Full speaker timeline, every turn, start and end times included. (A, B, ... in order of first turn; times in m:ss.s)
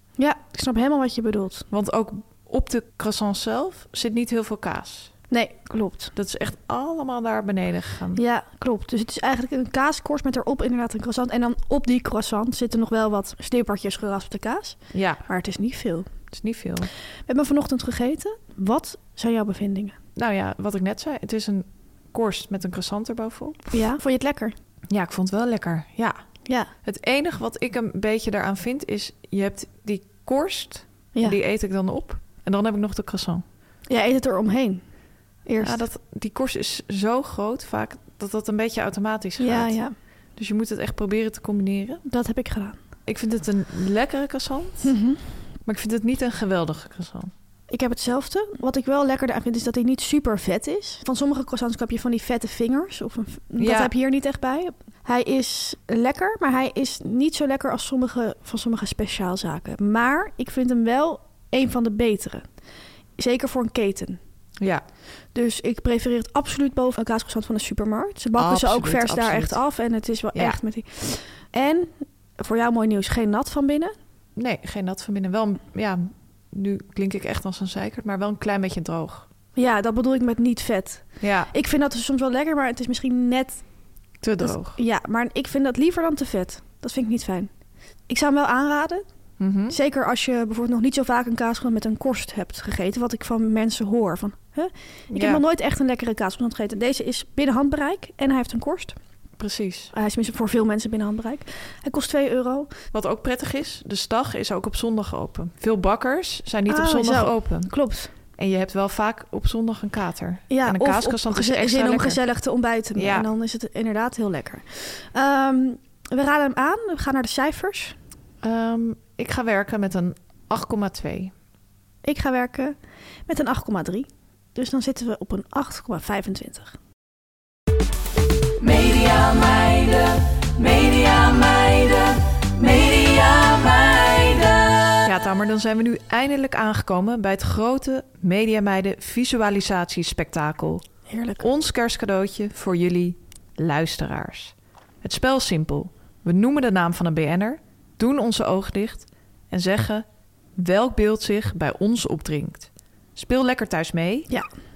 0:00.2-0:01.6 A
0:01.7-0:05.1 B
0:05.3-0:06.1 A
0:06.2-0:08.2 B
0:08.2-0:16.1 A
0:14.9-0:15.2 B
0:16.3-0:16.9 B
0:17.3-0:20.0 A
0:20.2-0:23.7 B
0:23.7-0:24.5 A
0:24.9-0:26.2 B
0:26.4-0:26.7 A
0:26.8-0:33.4 B
0:31.1-0:31.4 A
0:33.9-0:34.8 A
0:35.4-0:35.8 A
0:35.6-0:39.8 B
0:39.4-0:39.9 A
0:40.4-0:42.0 B
0:42.1-0:42.8 A
0:43.0-0:44.9 B
0:44.8-0:45.2 A
0:45.6-0:47.3 B
0:47.7-1:02.4 A
0:53.6-0:53.9 B
1:03.2-1:04.2 A
1:05.3-1:13.9 A
1:08.4-1:09.6 B
1:10.3-1:10.6 B
1:14.4-1:19.3 B
1:19.5-1:23.6 A
1:21.2-1:21.5 B
1:24.2-1:24.8 B
1:24.4-1:27.5 A
1:28.1-1:29.0 A
1:29.4-1:29.8 B
1:29.7-1:38.9 A
1:35.1-1:35.4 B
1:39.4-1:39.9 B
1:39.9-1:42.7 A
1:42.9-1:47.7 B
1:46.7-1:48.1 A
1:48.4-1:52.2 B
1:50.5-1:58.0 A
1:52.9-1:53.3 B
1:58.4-2:01.3 B
2:02.0-2:02.8 A
2:03.3-2:06.7 A
2:08.6-2:15.0 C
2:15.0-2:20.8 B
2:21.1-2:21.4 A
2:21.4-2:34.3 B